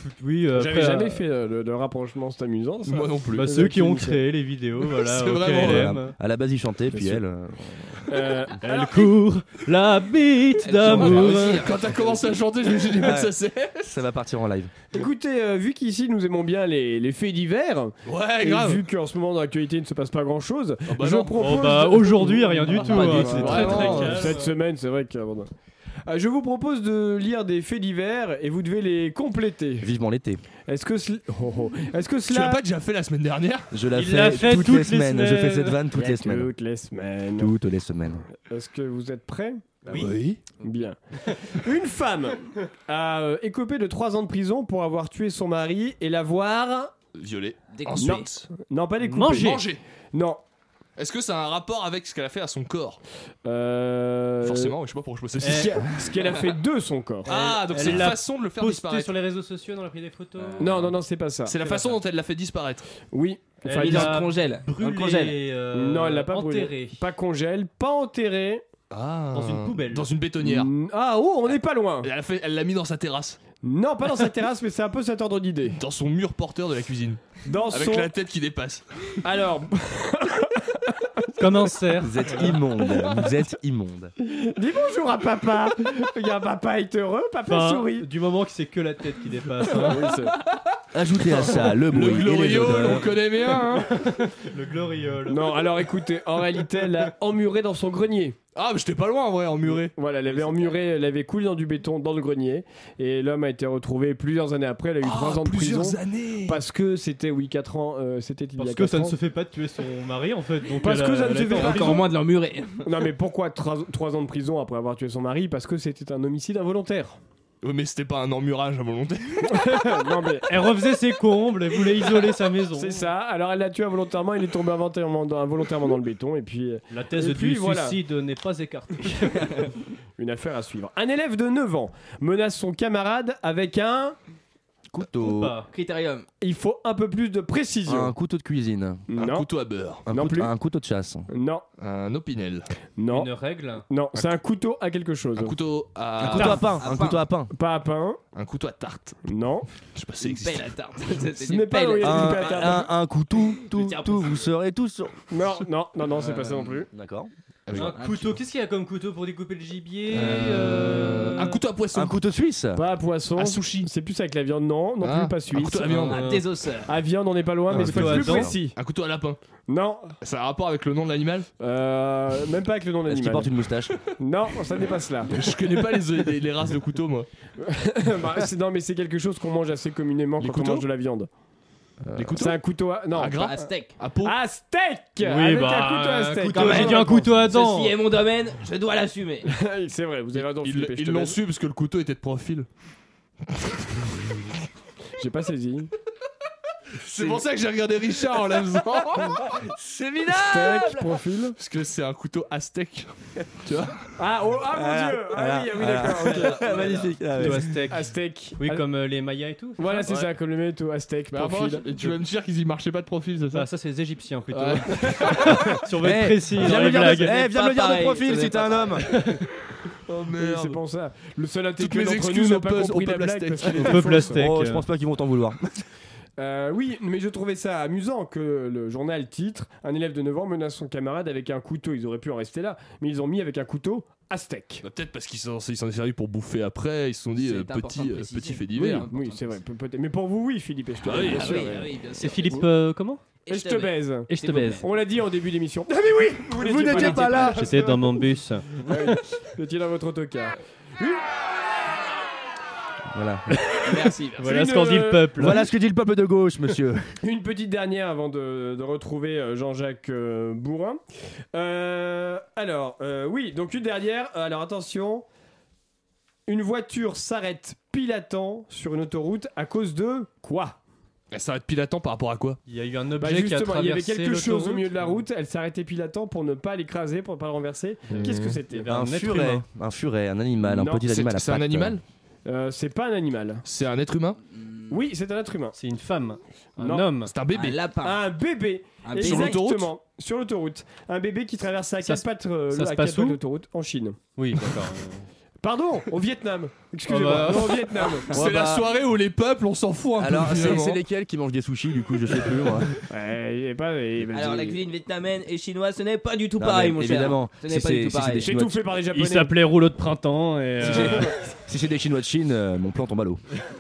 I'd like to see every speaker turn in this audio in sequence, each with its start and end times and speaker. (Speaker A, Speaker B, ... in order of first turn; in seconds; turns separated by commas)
Speaker A: 0.2-1.2, Speaker B: 0.6-4.2, Speaker C: 2.9-3.7, Speaker A: 3.4-6.2, Speaker C: 4.8-6.0, Speaker D: 5.6-8.0, Speaker B: 8.1-8.7, Speaker A: 8.6-11.7, Speaker E: 10.6-12.2, Speaker C: 10.8-13.9, Speaker D: 12.9-13.3, Speaker D: 13.8-14.7, Speaker B: 14.9-25.5, Speaker C: 18.1-18.8, Speaker C: 20.9-21.7, Speaker A: 21.4-24.5, Speaker C: 22.7-24.3, Speaker B: 26.1-29.9, Speaker D: 29.8-30.4, Speaker B: 30.7-32.6, Speaker C: 32.3-33.7, Speaker D: 33.7-36.5, Speaker A: 33.9-35.8, Speaker B: 35.9-37.5, Speaker D: 37.4-38.2, Speaker B: 38.5-39.8, Speaker C: 39.9-40.4, Speaker B: 40.6-46.9, Speaker C: 47.1-48.5, Speaker E: 47.7-48.3, Speaker B: 48.0-50.4, Speaker A: 49.0-49.6, Speaker C: 49.3-49.8, Speaker C: 51.0-53.0, Speaker B: 53.4-54.8, Speaker C: 54.4-56.3, Speaker A: 55.4-55.8, Speaker B: 55.4-57.3, Speaker C: 57.3-59.1, Speaker A: 57.3-61.0, Speaker B: 60.6-61.9, Speaker C: 61.4-62.9, Speaker B: 63.1-64.1, Speaker A: 63.6-67.0, Speaker E: 63.8-65.4, Speaker B: 65.7-68.6, Speaker C: 68.9-70.7, Speaker A: 69.3-70.1, Speaker B: 70.4-72.1, Speaker C: 72.0-73.4, Speaker B: 73.6-75.8, Speaker C: 75.8-79.2, Speaker B: 77.4-78.1, Speaker B: 79.2-81.4, Speaker A: 81.4-82.6, Speaker D: 82.0-84.1, Speaker B: 84.3-88.1, Speaker A: 87.5-90.1, Speaker B: 89.7-90.3, Speaker D: 90.9-93.1, Speaker C: 91.2-94.0, Speaker A: 93.9-95.8, Speaker B: 95.3-98.4, Speaker C: 98.5-99.9, Speaker B: 99.7-109.2, Speaker A: 100.3-100.7, Speaker C: 105.0-106.6, Speaker A: 108.6-112.1, Speaker B: 110.8-112.1, Speaker E: 111.5-112.8, Speaker B: 112.8-117.2, Speaker C: 117.6-119.9, Speaker B: 119.5-120.8, Speaker A: 120.5-123.1, Speaker B: 122.8-128.0, Speaker A: 126.9-129.7, Speaker B: 130.2-134.2, Speaker D: 134.9-135.6, Speaker A: 135.2-135.7, Speaker E: 135.7-136.3, Speaker B: 136.4-138.1, Speaker D: 137.9-139.1, Speaker B: 139.1-139.5, Speaker C: 139.2-140.1, Speaker B: 140.1-140.5, Speaker D: 140.1-141.3, Speaker B: 141.3-141.6, Speaker C: 141.8-142.7, Speaker B: 143.0-145.6, Speaker A: 143.1-143.8, Speaker C: 145.4-146.8, Speaker D: 146.2-147.5, Speaker B: 146.3-146.7, Speaker E: 146.8-147.2, Speaker B: 147.5-148.2, Speaker C: 148.3-149.2, Speaker B: 149.3-149.7, Speaker C: 149.9-150.7, Speaker E: 150.2-152.9, Speaker B: 151.4-152.9, Speaker D: 152.0-155.3, Speaker E: 153.6-154.5, Speaker B: 155.3-156.9, Speaker D: 156.9-157.3, Speaker C: 157.7-158.0, Speaker A: 157.7-161.6, Speaker E: 158.0-158.3, Speaker C: 160.1-162.2, Speaker D: 161.9-162.8, Speaker B: 162.8-165.9, Speaker C: 163.4-163.8, Speaker C: 165.0-166.3, Speaker E: 165.8-166.9, Speaker A: 165.9-166.4, Speaker B: 166.9-168.8, Speaker D: 167.8-168.5, Speaker C: 167.8-169.4, Speaker A: 167.8-168.6, Speaker B: 169.7-170.1, Speaker C: 170.2-171.5, Speaker B: 171.6-173.5, Speaker D: 173.1-174.0, Speaker B: 174.2-175.3, Speaker C: 175.3-177.3, Speaker B: 177.6-181.3, Speaker C: 180.4-180.9, Speaker C: 182.1-184.3, Speaker B: 182.2-183.6, Speaker E: 183.4-184.0, Speaker B: 184.2-187.3, Speaker A: 185.2-187.9, Speaker E: 186.5-189.5, Speaker B: 189.5-191.4, Speaker C: 190.3-192.7, Speaker C: 193.5-194.2, Speaker B: 195.2-195.9, Speaker C: 197.0-199.5, Speaker D: 199.2-201.1, Speaker B: 200.4-201.6, Speaker C: 201.6-203.1, Speaker C: 203.6-204.1, Speaker B: 204.2-206.6, Speaker D: 204.7-207.8, Speaker E: 206.6-207.0, Speaker A: 207.3-210.1, Speaker B: 207.4-208.8, Speaker B: 209.8-212.1, Speaker C: 211.3-213.7, Speaker A: 213.5-217.3, Speaker C: 214.5-215.8, Speaker D: 216.0-219.1, Speaker C: 216.6-217.2, Speaker E: 216.8-219.1, Speaker A: 219.1-219.4, Speaker C: 220.1-220.8, Speaker B: 220.3-224.4, Speaker C: 221.8-224.2, Speaker A: 223.8-224.8, Speaker D: 224.4-225.8, Speaker B: 226.4-234.8, Speaker C: 234.8-239.1, Speaker E: 237.4-239.6, Speaker B: 238.9-241.9, Speaker C: 241.1-241.8, Speaker E: 241.1-242.6, Speaker A: 242.2-243.2, Speaker B: 243.3-251.4, Speaker E: 243.5-244.7, Speaker A: 244.3-244.8, Speaker D: 246.0-247.6, Speaker A: 247.0-249.2, Speaker E: 247.0-247.5, Speaker D: 253.1-253.8, Speaker E: 253.8-254.5, Speaker A: 254.4-255.7, Speaker B: 254.4-255.3, Speaker D: 255.4-257.1, Speaker B: 257.2-261.0, Speaker B: 261.5-265.2, Speaker B: 266.5-270.8, Speaker C: 271.3-272.6, Speaker A: 272.6-275.2, Speaker B: 273.2-278.9, Speaker A: 278.1-279.6, Speaker D: 278.9-282.0, Speaker B: 280.6-281.1, Speaker C: 281.1-282.0, Speaker B: 282.5-283.6, Speaker C: 283.6-284.4, Speaker B: 284.9-285.8, Speaker A: 285.8-287.3, Speaker B: 286.8-287.3, Speaker C: 287.3-287.8, Speaker E: 287.5-288.2, Speaker B: 288.0-294.2, Speaker E: 289.0-289.6, Speaker C: 289.2-289.9, Speaker A: 292.0-293.4, Speaker A: 294.4-295.3, Speaker B: 295.6-298.3, Speaker A: 297.1-297.9, Speaker C: 297.5-301.0, Speaker D: 298.3-298.9, Speaker D: 300.2-303.0, Speaker B: 303.1-304.8, Speaker E: 304.3-308.5, Speaker D: 306.6-308.9, Speaker B: 308.4-309.5, Speaker A: 309.1-311.4, Speaker D: 310.9-313.4, Speaker B: 310.9-311.3